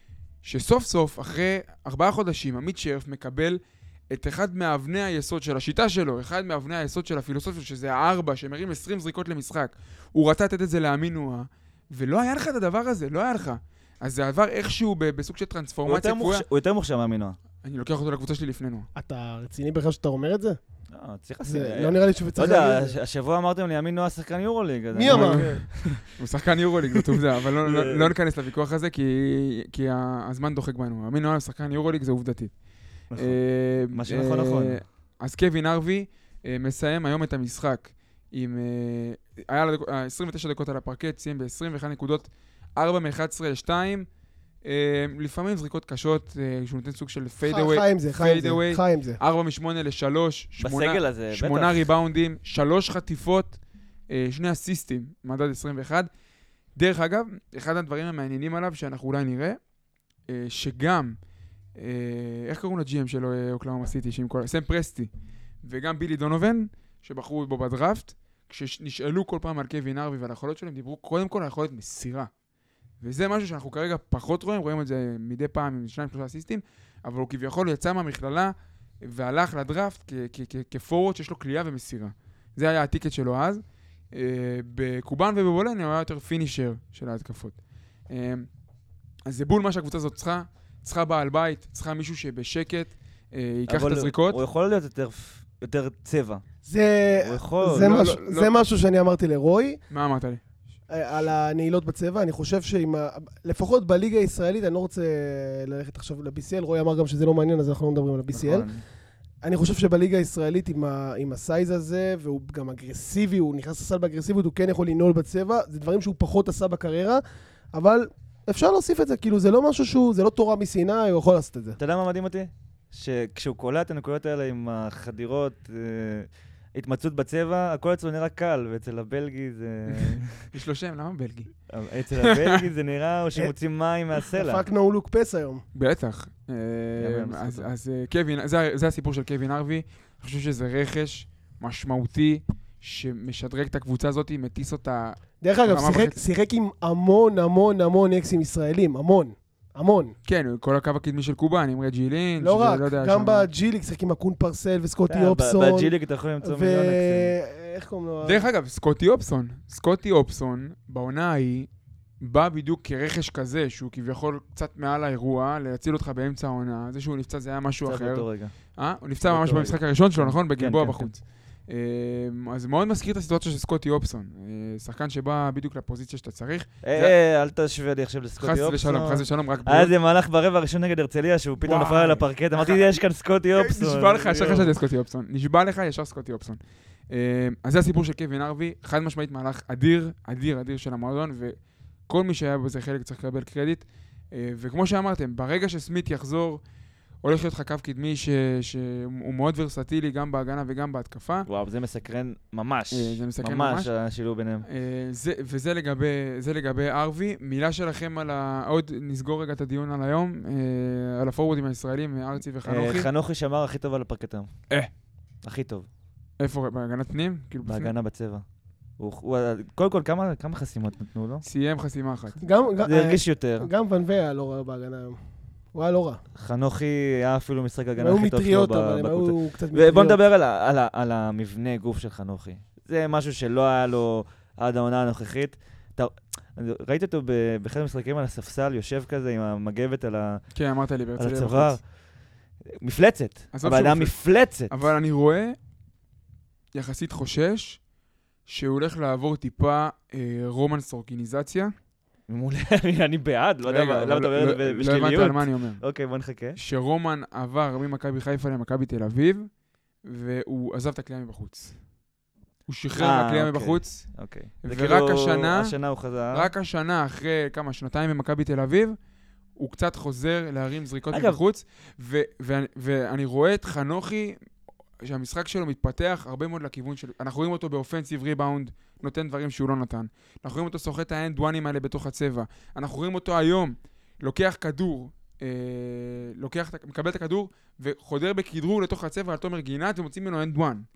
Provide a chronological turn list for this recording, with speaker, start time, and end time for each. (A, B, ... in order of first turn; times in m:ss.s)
0:00.4-0:16.4 A
0:15.8-0:17.4 B
0:17.6-0:18.9 A
0:19.0-0:20.6 C
0:20.9-0:26.1 B
0:21.4-0:23.0 C
0:24.9-0:25.5 C
0:25.1-0:32.5 A
0:26.9-0:28.1 B
0:33.1-0:33.4 B
0:33.2-0:44.1 A
0:33.9-0:34.8 B
0:44.6-0:53.6 A
0:47.4-0:49.2 C
0:50.6-0:51.9 B
0:54.1-0:56.1 A
0:56.8-0:59.6 A
1:00.3-1:01.2 A
1:01.8-1:05.1 A
1:05.6-1:12.3 A
1:13.0-1:27.6 A
1:28.1-1:28.5 A
1:29.3-1:34.4 A
1:33.7-1:36.4 B
1:36.7-1:39.8 C
1:37.1-1:38.0 B
1:37.6-1:38.6 A
1:39.9-1:40.4 A
1:40.9-1:48.7 C
1:48.3-1:48.8 B
1:49.4-1:57.2 C
1:57.7-2:01.8 C
2:01.8-2:10.5 B
2:09.9-2:11.5 A
2:11.7-2:14.6 B
2:12.2-2:12.6 A
2:14.4-2:15.6 C
2:15.7-2:26.2 A
2:17.0-2:17.7 B
2:25.4-2:30.2 C
2:30.3-2:33.5 A
2:32.4-2:38.4 C
2:35.1-2:37.3 B
2:38.2-2:41.7 A
2:42.2-2:57.2 A
2:47.8-2:48.5 B
2:49.2-2:51.1 B
2:56.8-3:04.7 B
2:58.4-2:59.9 A
3:01.6-3:02.9 A
3:03.6-3:16.6 A
3:17.2-3:21.5 A
3:21.5-3:24.7 B
3:22.9-3:23.9 A
3:24.6-3:33.1 A
3:32.6-3:34.5 B
3:35.4-3:35.9 B
3:36.4-3:37.9 A
3:37.6-3:38.4 B
3:39.0-3:41.4 B
3:41.4-3:42.4 A
3:42.4-3:45.2 C
3:42.8-3:43.7 B
3:45.7-3:46.2 C
3:46.4-4:00.4 B
3:48.0-3:50.2 C
4:00.5-4:01.8 A
4:01.2-4:01.8 B
4:02.8-4:04.7 B
4:03.5-4:04.1 A
4:04.7-4:05.6 A
4:06.7-4:07.8 A
4:08.5-4:11.7 A
4:12.3-4:16.6 B
4:13.6-4:15.8 A
4:16.6-4:19.5 A
4:20.0-4:21.8 A
4:22.7-4:24.0 A
4:23.0-4:26.5 B
4:24.6-4:25.7 A
4:26.3-4:29.0 A
4:29.6-4:34.4 A
4:31.1-4:31.4 B
4:35.0-4:50.9 A